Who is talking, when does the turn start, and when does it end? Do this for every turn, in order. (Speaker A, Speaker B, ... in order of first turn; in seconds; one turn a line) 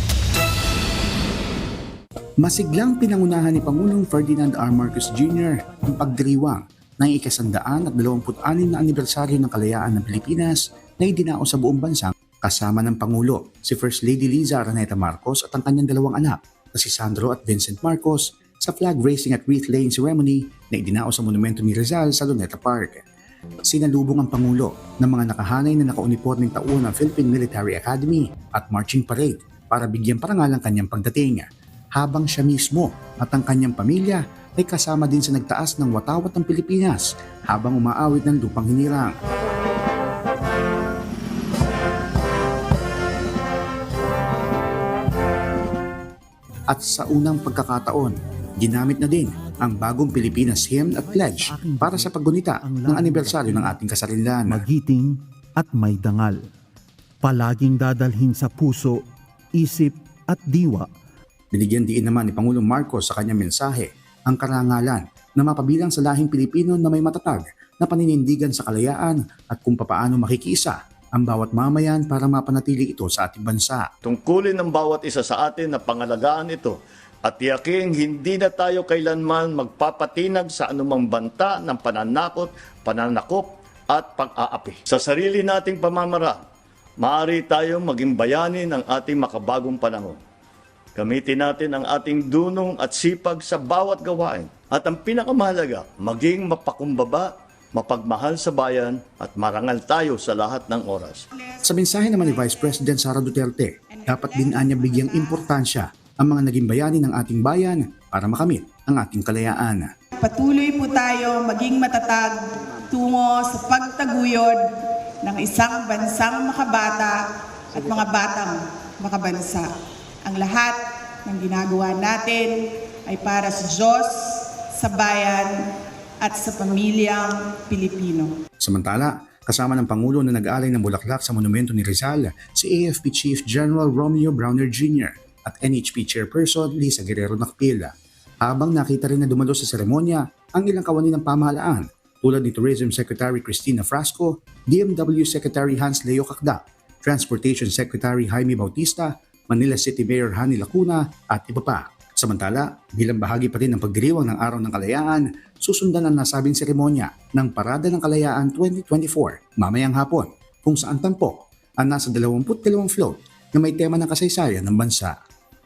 Speaker A: 2.4-23.0
Speaker A: 23.7-31.4
Speaker A: 32.0-39.1
Speaker A: 46.7-54.6
Speaker B: 51.0-53.8
Speaker B: 54.5-56.4
Speaker B: 57.2-59.0
Speaker B: 59.5-60.9
Speaker A: 61.5-73.9
Speaker C: 74.0-86.4
Speaker C: 87.0-90.2
Speaker C: 91.0-101.2
Speaker D: 101.3-102.9
Speaker A: 101.6-109.9
Speaker D: 103.9-105.5
Speaker D: 110.2-114.7
Speaker D: 115.2-119.7
Speaker D: 120.2-125.7
Speaker D: 126.2-128.3
Speaker A: 128.6-137.9
Speaker A: 138.4-165.1